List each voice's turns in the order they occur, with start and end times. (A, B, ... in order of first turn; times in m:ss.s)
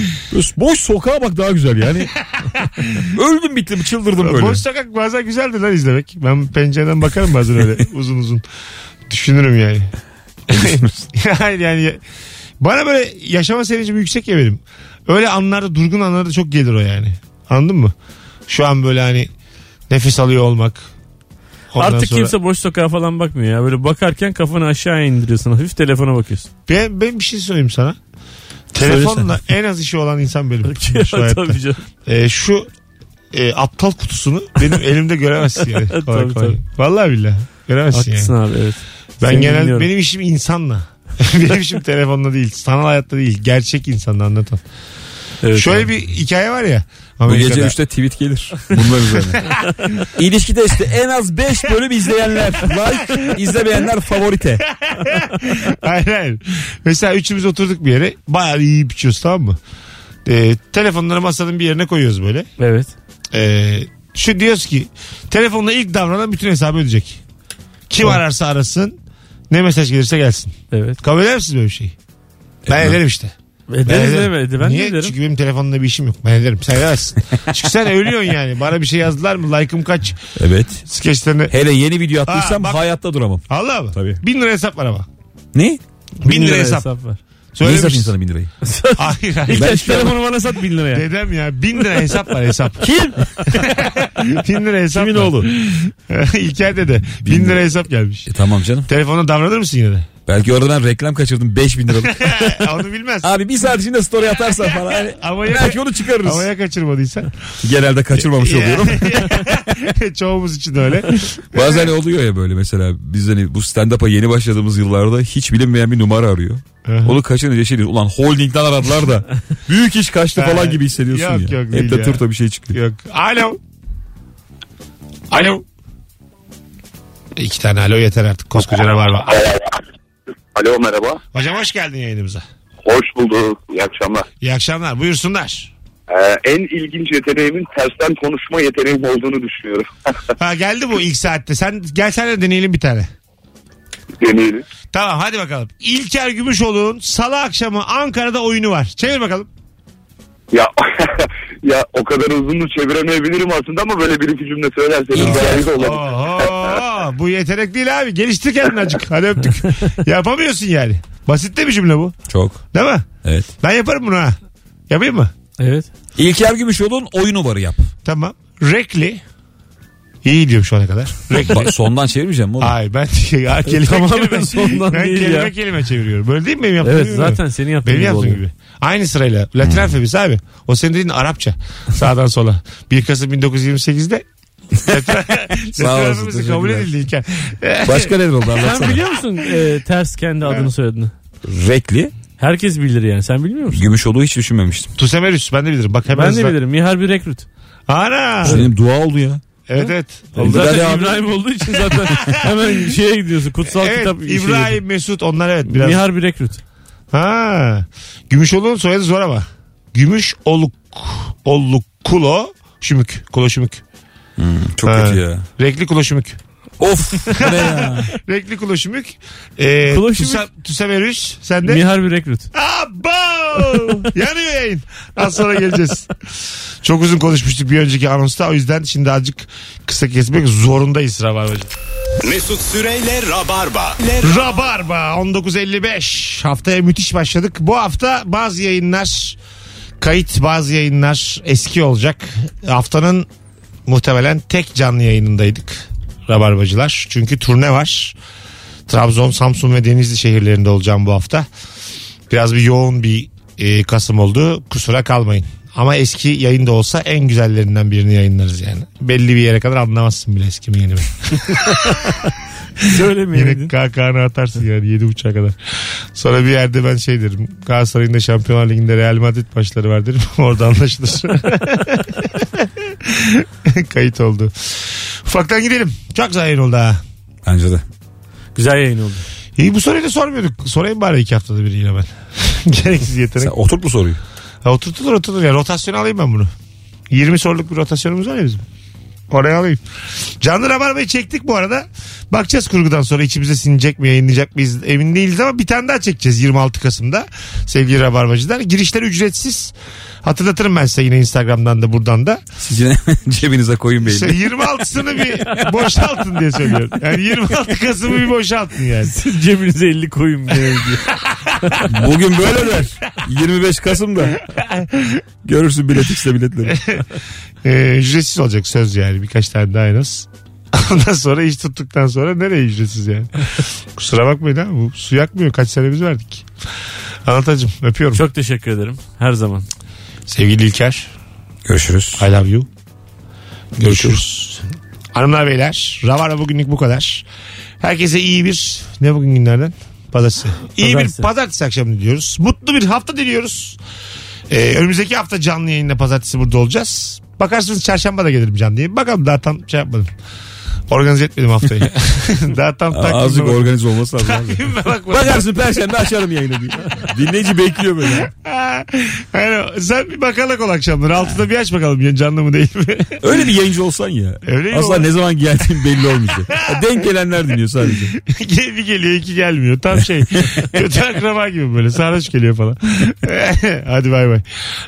0:00.3-0:02.1 A
0:02.4-0:03.0 B
0:03.0-0:04.6 A
0:04.2-0:08.4 B
0:09.1-0:09.9 B
0:10.5-0:12.0 B
0:10.5-0:11.0 A
0:12.6-0:17.9 B
0:18.5-0:19.3 B
0:19.9-0:20.9 B
0:21.7-0:22.4 B
0:21.8-0:26.5 C
0:26.7-0:28.0 B
0:28.7-0:32.7 B
0:28.8-0:29.2 C
0:30.6-0:31.8 C
0:33.3-0:38.3 B
0:35.9-0:36.6 C
0:37.9-0:39.9 C
0:39.2-0:44.6 B
0:45.4-0:45.9 C
0:45.5-0:47.7 B
0:47.2-0:49.4 A
0:50.1-0:54.6 A
0:52.7-0:53.2 B
0:54.8-0:59.6 B
1:00.2-1:02.5 B
1:02.6-1:02.9 C
1:03.3-1:07.2 B
1:07.9-1:09.0 B
1:09.5-1:11.9 B
1:10.7-1:11.0 C
1:12.6-1:13.0 A
1:12.7-1:13.3 B
1:13.7-1:15.2 C
1:13.8-1:20.2 B
1:20.4-1:20.8 A
1:20.8-1:21.5 B
1:21.5-1:24.2 A
1:22.2-1:22.8 B
1:23.5-1:25.1 B
1:25.5-1:25.8 A
1:26.2-1:26.9 B
1:26.2-1:27.2 C
1:27.5-1:28.1 B
1:27.6-1:28.5 A
1:28.6-1:31.0 C
1:29.0-1:30.1 B
1:29.5-1:30.0 A
1:30.9-1:32.9 B
1:32.8-1:33.5 C
1:33.4-1:38.3 B
1:35.0-1:35.5 C
1:37.2-1:37.6 A
1:38.3-1:38.9 A
1:38.9-1:40.1 B
1:40.3-1:42.6 A
1:42.0-1:43.3 B
1:43.2-1:46.5 A
1:44.7-1:47.3 B
1:47.6-1:49.6 A
1:48.2-1:51.9 B
1:51.5-2:02.8 A
1:56.8-1:57.2 B
2:00.3-2:03.6 B
2:05.3-2:05.6 B
2:07.4-2:09.6 B
2:10.5-2:11.2 D
2:11.3-2:12.4 B
2:12.8-2:14.2 D
2:14.4-2:15.7 B
2:16.1-2:19.9 D
2:20.4-2:23.1 B
2:24.2-2:24.6 D
2:24.9-2:29.5 B
2:30.5-2:36.6 D
2:35.1-2:35.7 A
2:35.2-2:42.2 B
2:42.3-2:42.6 A
2:42.7-2:43.1 B
2:43.2-2:43.5 A
2:43.6-2:44.4 B
2:44.9-2:45.3 B
2:45.6-2:45.9 C
2:46.2-2:47.9 A
2:48.0-2:49.2 B
2:50.2-2:51.7 B
2:51.4-2:52.7 A
2:52.6-3:04.2 B
2:53.7-2:55.5 C
2:56.8-2:58.4 C
2:59.6-2:59.9 A
3:04.8-3:08.1 B
3:05.6-3:06.9 A
3:07.8-3:09.0 A
3:08.6-3:11.1 C
3:10.4-3:10.7 B
3:11.4-3:12.1 A
3:12.4-3:13.8 C
3:13.7-3:14.9 A
3:15.0-3:16.6 B
3:16.1-3:17.4 C
3:17.9-3:18.6 B
3:18.4-3:19.4 A
3:19.7-3:20.6 B
3:20.4-3:21.3 A
3:20.4-3:24.8 C
3:22.0-3:22.7 B
3:23.7-3:26.0 B
3:25.6-3:26.6 C
3:27.1-3:33.8 B
3:34.4-3:35.4 A
3:34.8-3:36.4 B
3:36.8-3:38.1 A
3:37.4-3:41.8 B
3:39.9-3:40.4 C
3:41.6-3:42.5 C
3:42.5-3:46.1 B
3:43.7-3:44.0 C
3:46.8-3:51.7 B
3:52.2-3:54.6 E
3:54.2-3:59.4 B
4:00.0-4:03.3 B
4:03.8-4:08.2 B
4:08.9-4:11.5 B
4:12.3-4:22.1 B
4:21.5-4:22.1 C
4:22.8-4:23.7 C
4:23.3-4:25.6 B
4:26.1-4:37.0 B
4:37.4-4:37.8 A
4:38.6-4:39.2 C
4:39.6-4:43.5 B
4:43.4-4:44.2 A
4:44.6-4:46.5 B
4:47.1-4:48.6 B
4:49.3-4:49.8 B
4:50.4-5:02.4 B
5:02.6-5:04.5 A
5:04.0-5:09.1 B
5:09.0-5:11.8 C
5:11.9-5:14.4 A
5:14.5-5:15.2 B
5:15.4-5:16.8 A
5:16.7-5:17.0 B
5:17.6-5:26.4 B
5:27.2-5:28.2 B
5:28.1-5:29.7 C
5:30.3-5:31.1 B
5:31.6-5:32.2 A
5:32.2-5:32.7 B
5:33.8-5:37.2 B
5:37.8-5:43.8 B
5:40.8-5:41.3 C
5:44.5-5:50.1 B
5:50.9-5:55.6 B
5:52.9-5:58.3 A
5:58.2-6:03.4 B
6:03.2-6:08.2 A
6:04.4-6:05.1 B
6:06.5-6:07.0 B
6:08.2-6:14.4 B